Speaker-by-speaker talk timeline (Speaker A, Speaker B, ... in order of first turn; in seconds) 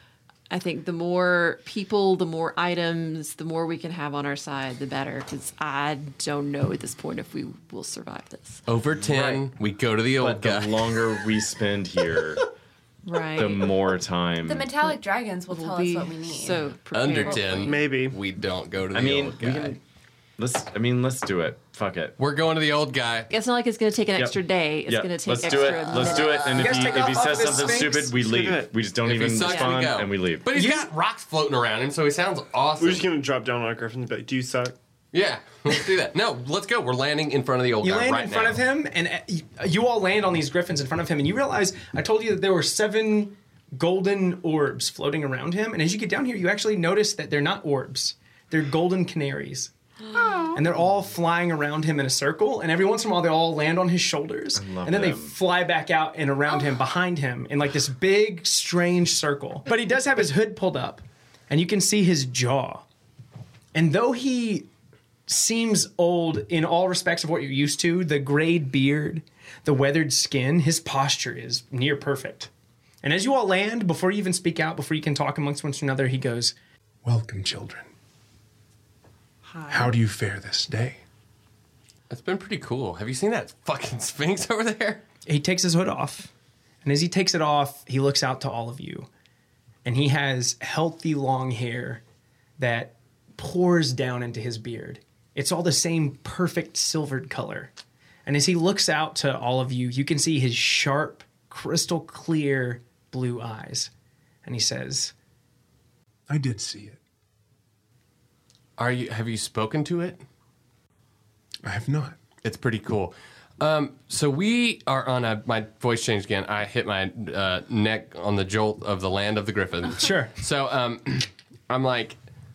Speaker A: 0.5-8.6, 13.0-13.7, 15.5-17.8, 23.3-27.0, 29.4-29.8
Speaker B: 8.7-11.1, 16.9-19.8, 22.2-23.3, 29.0-33.1, 35.1-38.6, 82.1-85.0, 108.8-110.2, 112.4-122.2
Speaker C: 9.0-9.5, 10.2-12.4, 13.3-14.7, 18.9-19.8, 20.4-22.1, 24.1-30.4, 54.5-55.4
Speaker D: 14.4-16.6
Speaker E: 17.6-18.2, 27.3-28.7, 32.8-34.7
Speaker F: 26.4-28.1, 30.5-30.9, 37.8-49.7, 50.5-62.8, 63.7-64.7, 65.3-72.5, 73.0-76.5, 85.2-86.3, 86.8-89.1, 89.8-92.0, 92.6-97.7, 98.2-103.9, 104.4-105.1, 120.0-120.3
Speaker G: 77.0-77.9, 79.7-81.0, 106.3-107.0, 111.6-112.2